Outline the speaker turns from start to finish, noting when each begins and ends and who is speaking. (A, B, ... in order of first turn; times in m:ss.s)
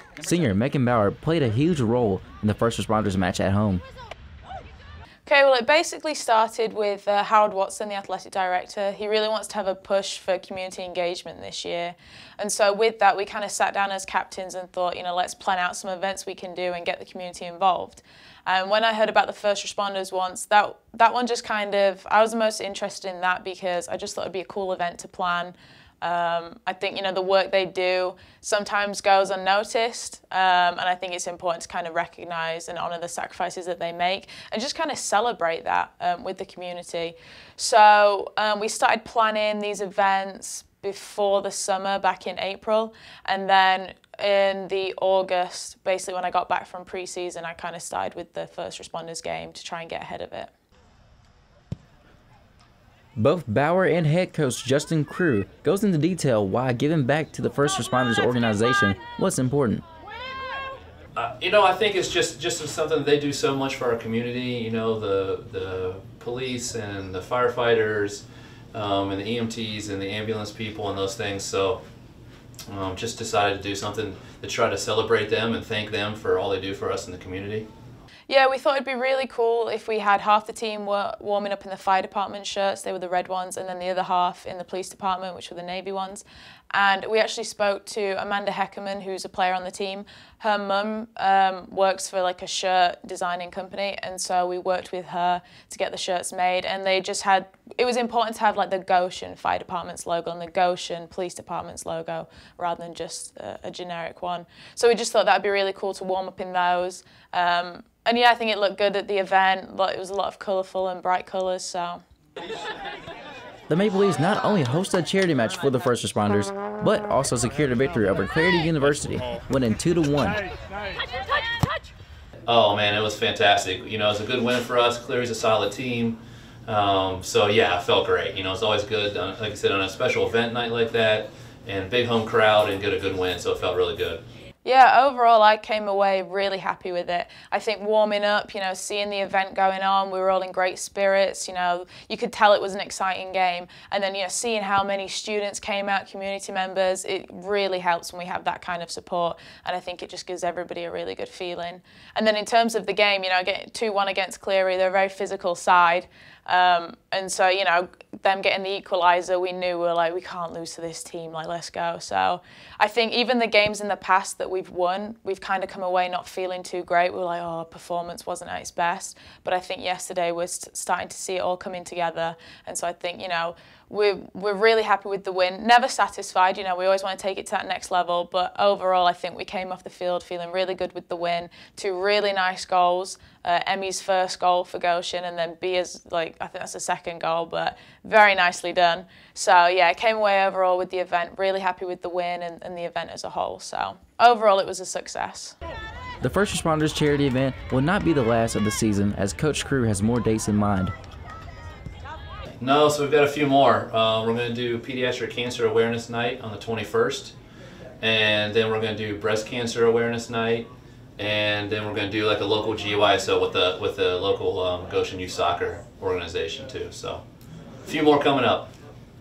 0:00.2-0:03.8 A
0:05.3-0:50.5 B
0:53.2-0:59.8 A
1:01.2-1:11.8 C
1:12.7-1:17.7 C
1:18.3-1:52.0 B
1:53.7-2:00.4 A
2:02.5-2:14.2 C
2:14.6-3:15.6 B
3:16.2-3:20.9 A
3:22.6-3:27.3 C
3:28.0-3:37.2 C
3:37.8-3:38.7 C